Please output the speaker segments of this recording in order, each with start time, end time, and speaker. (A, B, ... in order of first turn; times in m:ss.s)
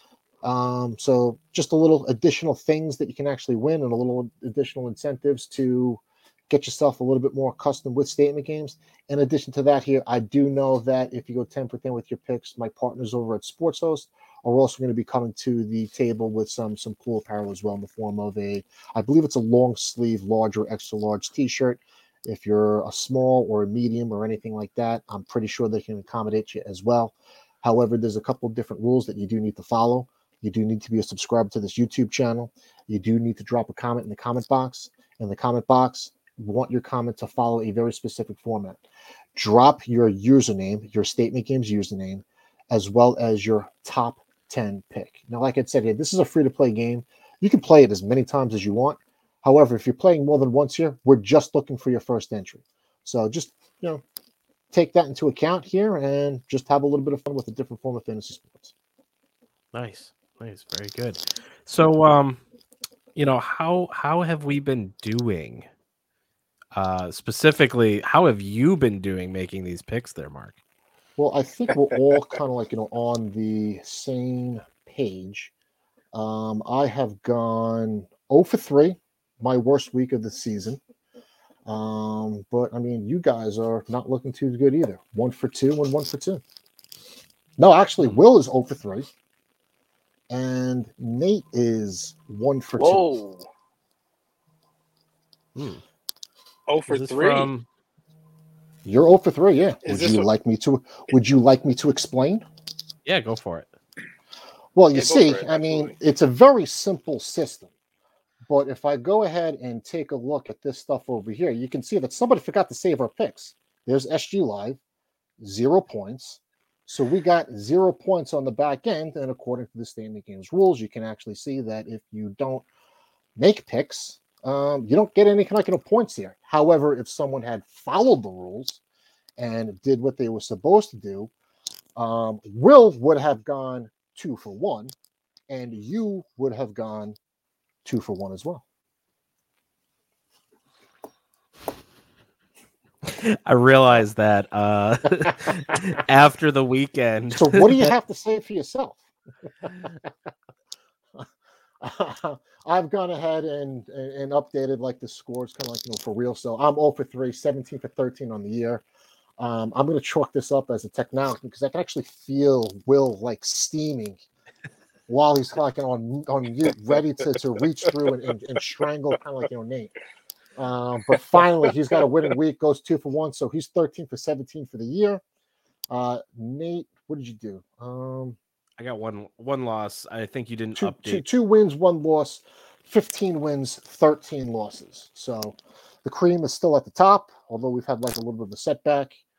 0:00.4-0:38.8 A
0:39.3-0:54.0 A
0:54.7-0:58.7 A
0:59.7-1:02.4 B
1:03.1-1:05.6 B
1:06.7-1:10.6 B
1:11.2-1:15.5 A
1:16.1-1:20.8 A
1:21.6-1:26.4 A
1:27.6-1:29.1 A
1:30.3-1:33.1 A
1:32.8-1:33.5 C
1:35.6-1:35.8 B
1:36.7-1:37.5 C
1:36.9-1:37.6 B
1:38.8-1:42.4 A
1:39.8-1:40.3 C
1:43.0-1:43.7 B
1:44.7-1:47.7 A
1:44.9-1:45.9 C
1:48.5-1:54.8 A
1:55.4-2:02.6 A
2:03.4-2:08.8 A
2:09.4-2:11.3 A
2:12.0-2:14.9 A
2:15.5-2:17.2 A
2:17.8-2:18.6 A
2:23.0-2:27.9 B
2:27.3-2:29.0 A
2:29.6-2:30.1 A
2:31.8-2:38.8 A
2:39.4-2:44.2 A
2:45.1-2:49.9 A
2:50.6-2:55.2 A
2:55.9-2:58.4 A
2:58.8-3:01.2 B
3:00.8-3:09.2 A